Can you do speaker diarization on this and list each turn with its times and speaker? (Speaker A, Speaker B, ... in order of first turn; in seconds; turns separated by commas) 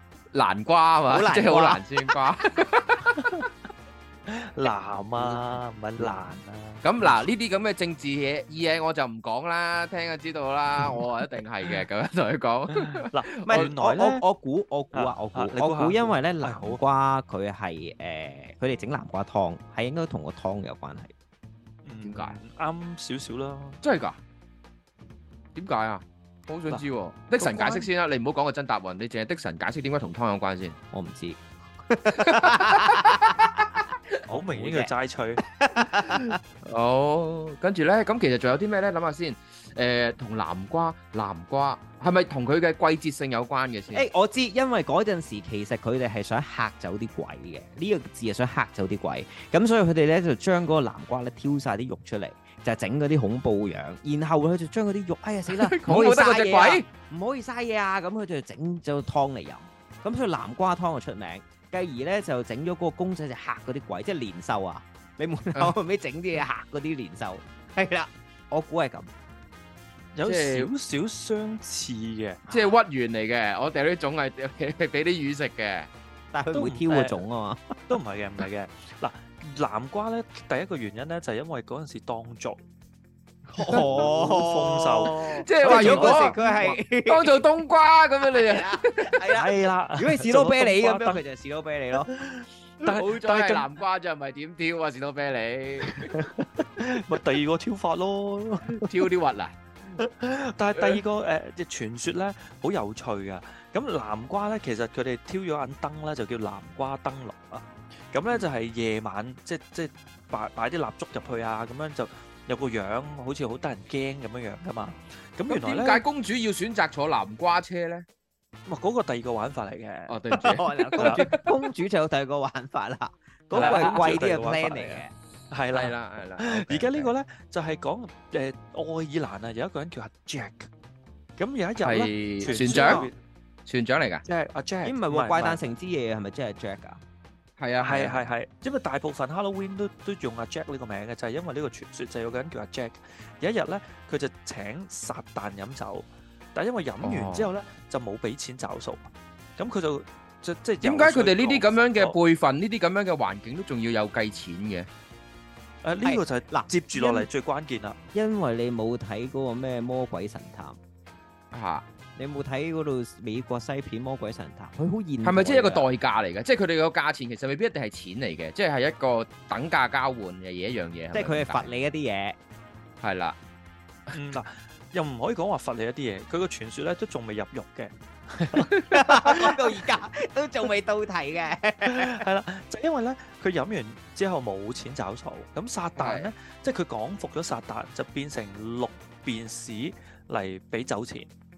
Speaker A: 0.3-3.3, Speaker B: 1.1-1.8, Speaker C: 4.3-7.1, Speaker A: 6.8-13.7, Speaker C: 12.7-14.2, Speaker B: 13.4-21.1, Speaker C: 14.9-16.8, Speaker C: 21.8-23.8, Speaker A: 22.0-22.4, Speaker A: 23.8-24.2, Speaker A: 25.5-30.8, Speaker C: 27.4-27.9, Speaker B: 30.9-33.6, Speaker A: 32.1-33.9, Speaker B: 34.3-34.9, Speaker C: 34.3-35.4, Speaker B: 35.5-36.4, Speaker A: 36.6-44.1, Speaker B: 43.9-69.1, Speaker A: 55.5-56.9, Speaker C: 70.1-72.4, Speaker A: 70.2-70.7, Speaker B: 72.5-72.8, Speaker A: 72.5-75.9, Speaker B: 76.3-78.0, Speaker C: 76.5-77.2, Speaker C: 77.9-82.6, Speaker C: 83.5-86.5, Speaker B: 83.5-87.4, Speaker A: 85.4-89.3, Speaker B: 88.3-92.1, Speaker C: 89.3-91.2, Speaker C: 92.1-93.7, Speaker A: 92.8-96.1, Speaker C: 95.9-98.9, Speaker A: 98.7-99.5, Speaker C: 100.0-116.0, Speaker A: 115.5-118.0, Speaker C: 118.7-120.2, Speaker A: 120.1-121.5, Speaker B: 120.5-125.1, Speaker C: 121.0-121.4, Speaker C: 123.5-130.7, Speaker A: 123.5-124.2, Speaker A: 125.7-127.1, Speaker C: 131.4-133.2, Speaker A: 131.8-133.1, Speaker B: 132.4-133.1, Speaker A: 133.7-134.2, Speaker C: 134.2-135.7, Speaker B: 134.8-137.0, Speaker A: 137.6-138.2, Speaker C: 137.8-152.2, Speaker A: 147.0-147.5, Speaker A: 150.8-154.9, Speaker C: 155.8-158.0, Speaker B: 156.0-157.3, Speaker B: 158.1-160.8, Speaker A: 161.5-161.8, Speaker B: 162.2-165.8, Speaker A: 165.2-171.7, Speaker B: 171.1-172.4, Speaker A: 173.0-173.3, Speaker C: 174.1-179.6, Speaker A: 178.7-179.0, Speaker B: 178.9-182.2, Speaker C: 181.8-191.3, Speaker A: 186.0-186.3